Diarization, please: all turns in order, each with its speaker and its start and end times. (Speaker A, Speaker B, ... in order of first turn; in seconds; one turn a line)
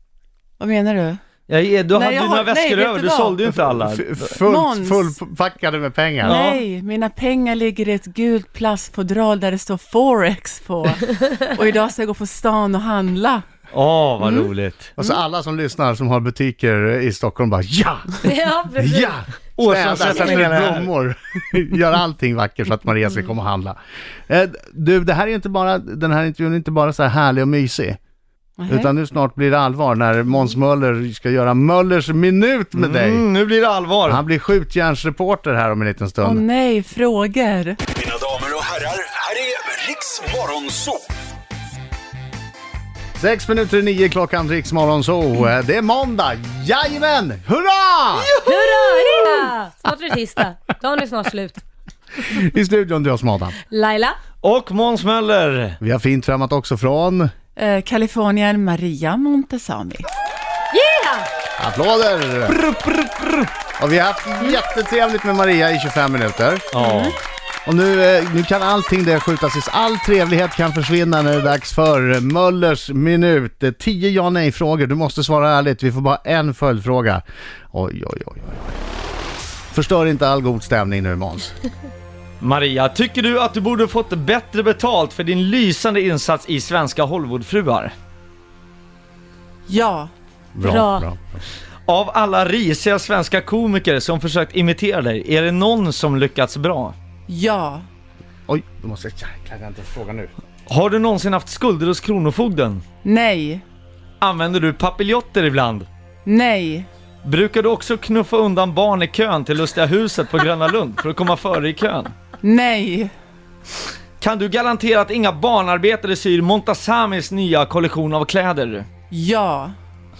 Speaker A: 0.6-1.2
Speaker B: 1.5-4.2
Speaker A: 1.9-3.4
Speaker C: 3.5-6.4
Speaker A: 4.4-5.2
Speaker A: 6.2-13.4
Speaker B: 6.2-6.5
Speaker B: 13.7-14.9
Speaker A: 14.2-14.5
Speaker C: 15.0-23.8
Speaker D: 18.2-19.1
Speaker B: 19.6-20.9
Speaker C: 24.3-28.0
Speaker A: 28.6-28.9
Speaker C: 28.7-33.2
Speaker B: 32.7-34.2
Speaker C: 34.0-36.4
Speaker A: 36.2-37.8
Speaker E: 38.0-41.0
Speaker C: 43.2-48.3
Speaker B: 48.2-49.3
Speaker D: 48.4-51.6
Speaker C: 52.2-53.6
Speaker D: 53.7-54.2
Speaker B: 54.4-55.8
Speaker C: 55.8-57.3
Speaker A: 57.5-60.0
Speaker D: 60.7-61.3
Speaker C: 61.6-62.6
Speaker B: 62.5-63.5
Speaker C: 63.8-66.7
Speaker B: 66.7-67.2
Speaker A: 66.8-67.2
Speaker C: 67.7-78.8
Speaker C: 79.7-81.5
Speaker B: 82.4-87.9
Speaker A: 89.7-90.1
Speaker C: 90.5-91.4
Speaker D: 90.6-91.1
Speaker B: 91.9-97.0
Speaker A: 97.3-97.8
Speaker C: 98.5-100.3
Speaker B: 100.7-102.8
Speaker A: 103.0-103.6
Speaker B: 104.2-105.9
Speaker A: 106.2-106.9
Speaker B: 107.2-112.1
Speaker A: 112.4-113.1
Speaker B: 114.2-118.9
Speaker A: 119.1-119.7